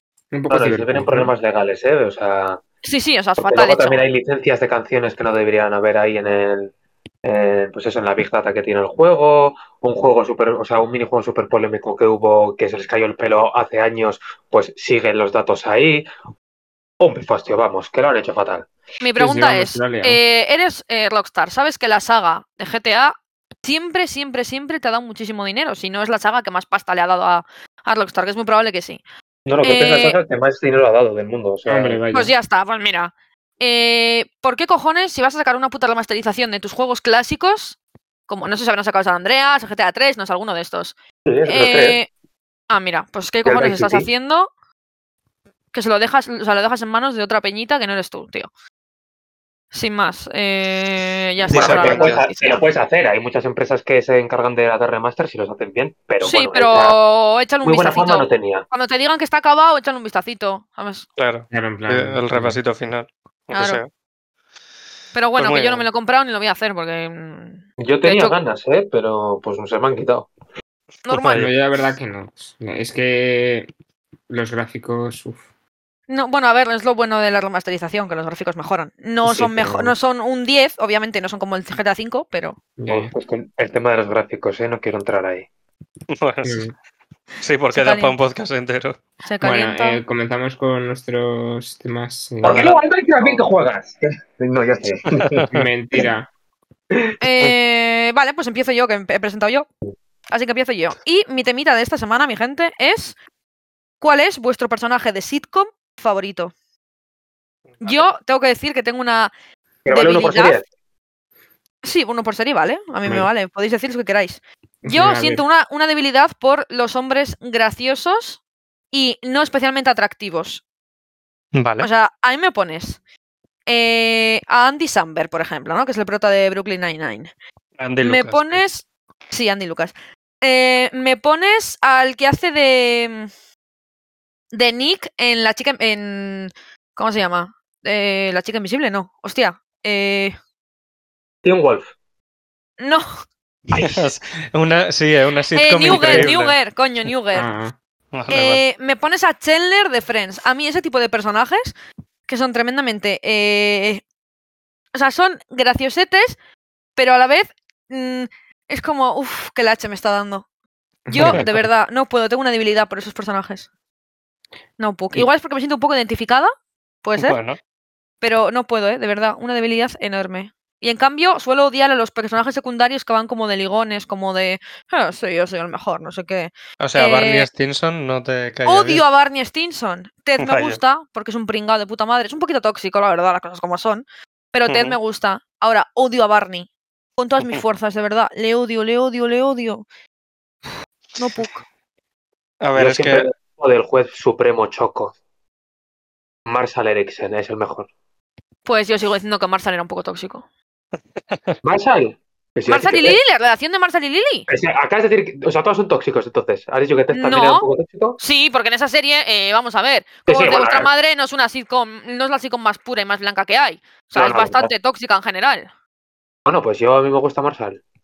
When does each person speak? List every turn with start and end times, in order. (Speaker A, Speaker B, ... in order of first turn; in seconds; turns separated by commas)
Speaker A: 0.3-1.3, Speaker B: 0.5-2.6, Speaker C: 2.8-4.1, Speaker B: 3.4-6.7, Speaker B: 7.2-16.1, Speaker B: 17.0-18.7, Speaker C: 19.0-29.0, Speaker A: 19.2-20.2, Speaker B: 29.5-32.0, Speaker C: 29.6-30.2, Speaker A: 31.7-32.3, Speaker C: 32.1-41.0, Speaker B: 41.3-42.0, Speaker C: 41.5-42.1, Speaker C: 42.7-44.5, Speaker B: 43.5-44.1, Speaker C: 45.7-48.5, Speaker C: 49.7-52.6, Speaker D: 51.5-52.2, Speaker B: 51.5-57.0, Speaker C: 56.2-61.1, Speaker B: 57.6-58.7, Speaker D: 61.2-63.9, Speaker A: 61.5-62.6, Speaker C: 63.5-63.8, Speaker C: 65.1-68.4, Speaker D: 65.4-65.9, Speaker B: 67.8-70.3, Speaker C: 71.1-71.4, Speaker D: 71.1-71.5, Speaker A: 71.3-73.7, Speaker A: 74.3-75.4, Speaker C: 76.1-82.6, Speaker A: 79.2-80.0, Speaker A: 82.8-83.1, Speaker B: 82.9-85.5, Speaker D: 86.1-86.7, Speaker A: 86.4-86.7, Speaker D: 87.4-89.0, Speaker C: 87.7-88.2, Speaker C: 89.2-90.0, Speaker A: 89.4-92.7, Speaker B: 92.4-95.5, Speaker D: 92.4-93.3, Speaker D: 95.1-95.6, Speaker A: 95.5-96.3, Speaker C: 97.2-99.7, Speaker C: 100.3-103.2, Speaker C: 104.0-106.5, Speaker D: 107.8-108.0, Speaker C: 107.8-109.3, Speaker B: 109.8-110.7, Speaker C: 109.9-110.6, Speaker C: 111.8-118.4, Speaker A: 114.8-115.5, Speaker C: 118.9-120.6, Speaker D: 121.5-121.9, Speaker C: 121.8-123.0, Speaker C: 123.7-127.3, Speaker D: 127.8-128.6, Speaker C: 128.0-133.3, Speaker C: 134.5-140.4, Speaker B: 141.4-141.9, Speaker C: 142.8-143.1, Speaker B: 143.7-144.0, Speaker D: 143.8-146.6, Speaker C: 145.5-147.5, Speaker A: 145.9-146.3, Speaker A: 147.3-147.8, Speaker D: 148.1-148.6, Speaker C: 148.3-151.7, Speaker C: 152.3-154.0, Speaker C: 154.9-156.4, Speaker C: 157.0-160.4, Speaker A: 161.1-161.6, Speaker C: 161.1-163.7, Speaker C: 164.8-166.5, Speaker C: 167.0-167.4, Speaker D: 167.2-167.6, Speaker C: 168.2-177.5, Speaker D: 176.8-179.0, Speaker C: 178.7-189.8, Speaker D: 180.4-180.8, Speaker D: 184.7-185.0, Speaker C: 191.2-191.6, Speaker D: 192.6-193.3, Speaker B: 192.8-195.2, Speaker B: 196.5-197.9, Speaker C: 198.7-200.5, Speaker B: 201.6-203.2, Speaker C: 202.7-204.5, Speaker B: 204.5-208.2, Speaker C: 207.1-207.7, Speaker C: 208.2-215.7, Speaker B: 210.3-210.9, Speaker B: 214.2-214.7, Speaker B: 216.5-217.8